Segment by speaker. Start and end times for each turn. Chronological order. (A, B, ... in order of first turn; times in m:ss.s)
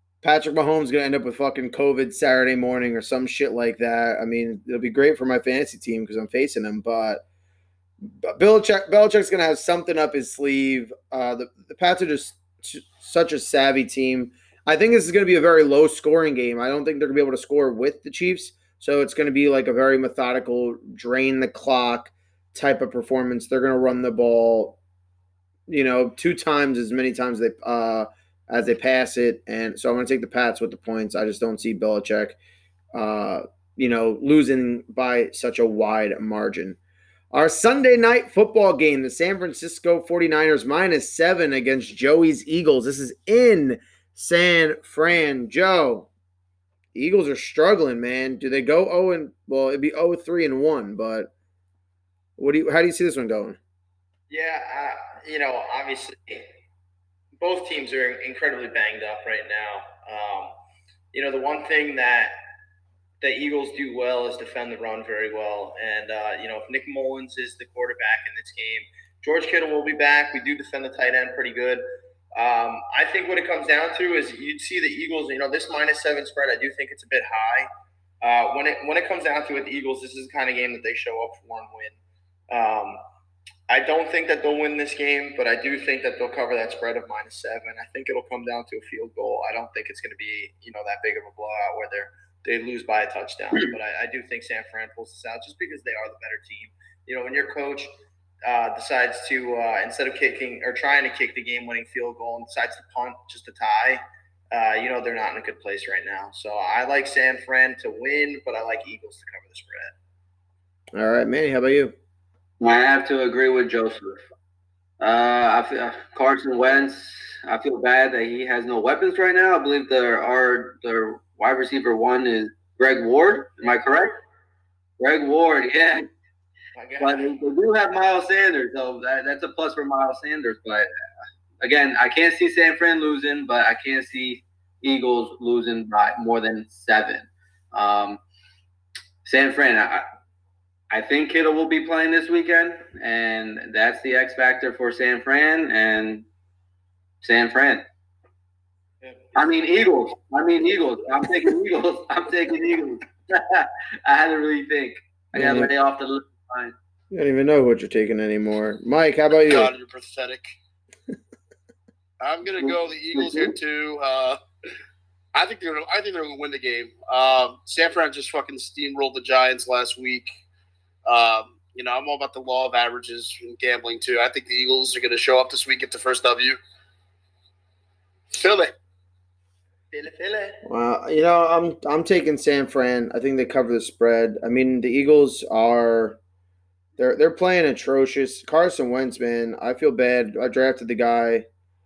0:00.2-0:07.2 A
0:08.0-0:24.8 A
0:25.7-0:32.4 A
0:32.9-0:36.8 A
0:37.3-0:46.1 A
0:46.9-0:51.3 A
0:52.4-0:53.6 A
0:54.3-0:56.4 B
0:57.4-1:00.5 B
1:01.1-1:02.3 B
1:03.2-1:11.8 B
1:12.3-1:17.7 B
1:18.2-1:22.0 B
1:22.5-1:23.0 B
1:23.7-1:37.9 B
1:38.4-1:49.9 B
1:50.9-1:51.9 A
1:52.6-1:54.2 C
1:55.0-2:04.1 C
2:03.7-2:04.2 B
2:05.0-2:06.1 C
2:06.7-2:07.4 B
2:07.0-2:10.9 C
2:11.6-2:18.2 C
2:19.2-2:20.0 C
2:20.9-2:26.2 C
2:27.2-2:27.8 C
2:29.0-2:29.7 B
2:29.3-2:36.7 C
2:35.3-2:35.7 A
2:37.1-2:39.7 A
2:39.5-2:40.6 D
2:42.2-2:44.4 D
2:43.1-2:43.5 C
2:45.3-2:50.3 D
2:51.0-2:56.6 D
2:58.3-2:58.7 D
2:59.9-3:00.6 B
3:00.6-3:06.2 A
3:07.0-3:11.4 A